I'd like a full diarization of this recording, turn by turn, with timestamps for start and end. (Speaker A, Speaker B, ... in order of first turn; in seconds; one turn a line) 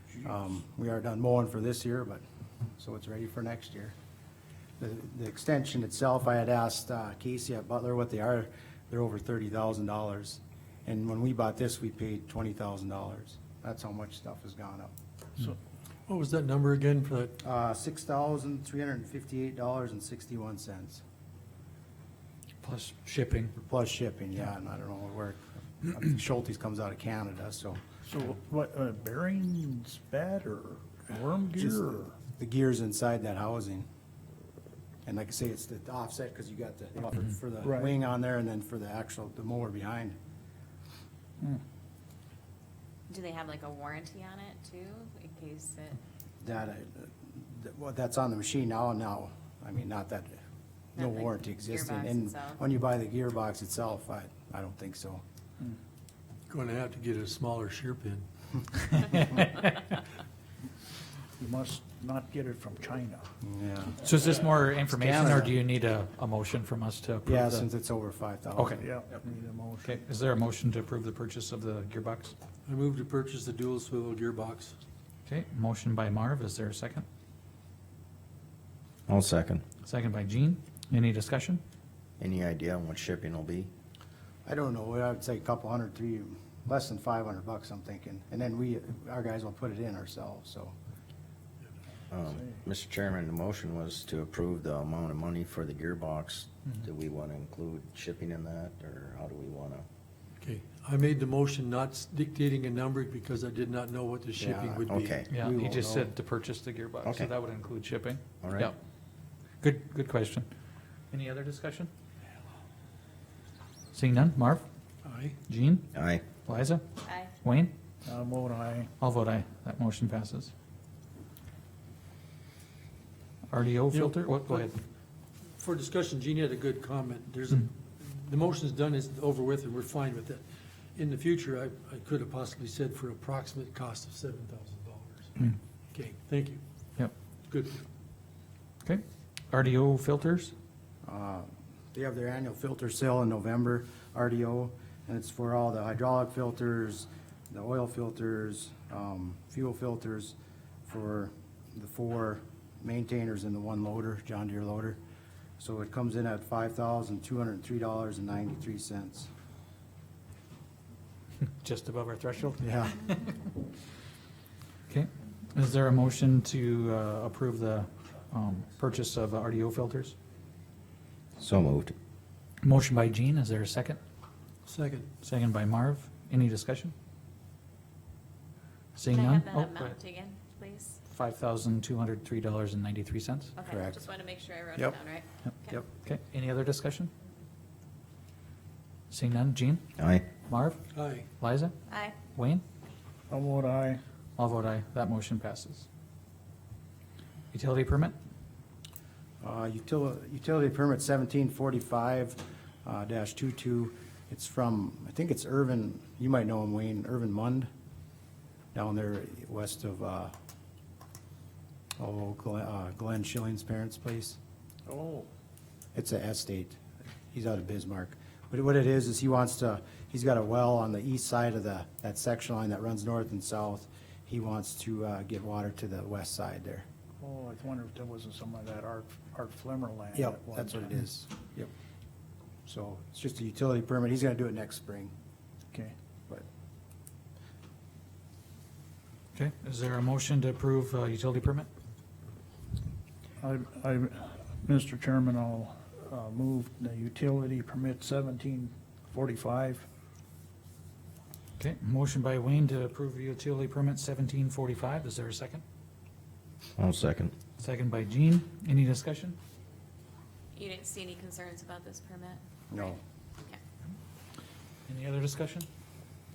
Speaker A: 0.2-2.2
Speaker A: 2.8-4.0
Speaker A: 4.8-14.9
Speaker B: 16.1-17.4
Speaker A: 17.4-21.0
Speaker C: 22.6-23.5
Speaker A: 23.6-27.8
Speaker D: 28.1-32.1
Speaker A: 31.6-33.9
Speaker A: 35.1-40.2
Speaker D: 37.6-37.9
Speaker E: 43.1-46.0
Speaker A: 46.4-50.4
Speaker E: 51.0-52.6
Speaker A: 51.0-55.2
Speaker B: 56.5-58.3
Speaker C: 58.8-59.9
Speaker D: 61.4-63.3
Speaker A: 63.4-64.1
Speaker C: 64.0-67.7
Speaker A: 64.8-65.6
Speaker A: 67.2-68.9
Speaker C: 68.5-68.8
Speaker D: 68.8-70.0
Speaker C: 69.8-72.3
Speaker B: 72.7-74.8
Speaker C: 75.3-77.0
Speaker F: 79.1-79.6
Speaker C: 79.8-81.6
Speaker F: 82.2-83.7
Speaker A: 84.5-90.8
Speaker F: 92.1-99.9
Speaker B: 100.4-105.2
Speaker A: 104.4-106.1
Speaker F: 104.9-105.3
Speaker C: 105.3-108.8
Speaker F: 107.0-107.3
Speaker F: 108.4-108.7
Speaker C: 109.6-110.5
Speaker C: 111.1-111.9
Speaker C: 113.9-114.7
Speaker B: 115.0-115.4
Speaker C: 115.5-115.9
Speaker F: 115.9-116.2
Speaker C: 116.4-116.8
Speaker E: 117.0-117.3
Speaker C: 117.4-117.7
Speaker D: 118.0-118.9
Speaker C: 119.0-120.5
Speaker C: 123.5-124.8
Speaker B: 123.9-124.7
Speaker B: 125.5-130.4
Speaker B: 130.9-136.6
Speaker B: 137.5-137.8
Speaker C: 138.8-140.5
Speaker A: 141.0-150.4
Speaker A: 150.9-155.0
Speaker A: 155.6-159.3
Speaker C: 161.4-163.5
Speaker A: 162.6-162.9
Speaker C: 164.9-170.2
Speaker F: 171.4-171.9
Speaker C: 172.6-174.0
Speaker B: 174.7-175.1
Speaker C: 175.2-176.9
Speaker C: 179.0-180.0
Speaker E: 179.1-181.0
Speaker C: 181.1-183.5
Speaker E: 183.6-185.8
Speaker A: 183.7-184.0
Speaker C: 185.5-187.1
Speaker C: 189.1-189.8
Speaker F: 190.0-190.3
Speaker C: 190.5-190.8
Speaker B: 190.9-191.3
Speaker C: 191.4-191.8
Speaker E: 191.9-192.2
Speaker C: 192.3-192.6
Speaker D: 193.3-194.0
Speaker C: 194.4-195.9
Speaker C: 197.5-198.1
Speaker A: 199.4-207.7
Speaker A: 208.7-210.3
Speaker A: 212.0-214.4
Speaker D: 214.9-215.3
Speaker A: 215.9-226.8
Speaker D: 227.2-231.0
Speaker A: 230.1-231.7
Speaker A: 232.7-235.1
Speaker C: 239.3-241.7
Speaker D: 243.4-249.9
Speaker C: 251.6-255.6
Speaker F: 256.8-257.3
Speaker C: 257.6-259.4
Speaker E: 260.6-262.9
Speaker A: 262.7-263.0
Speaker C: 264.9-265.7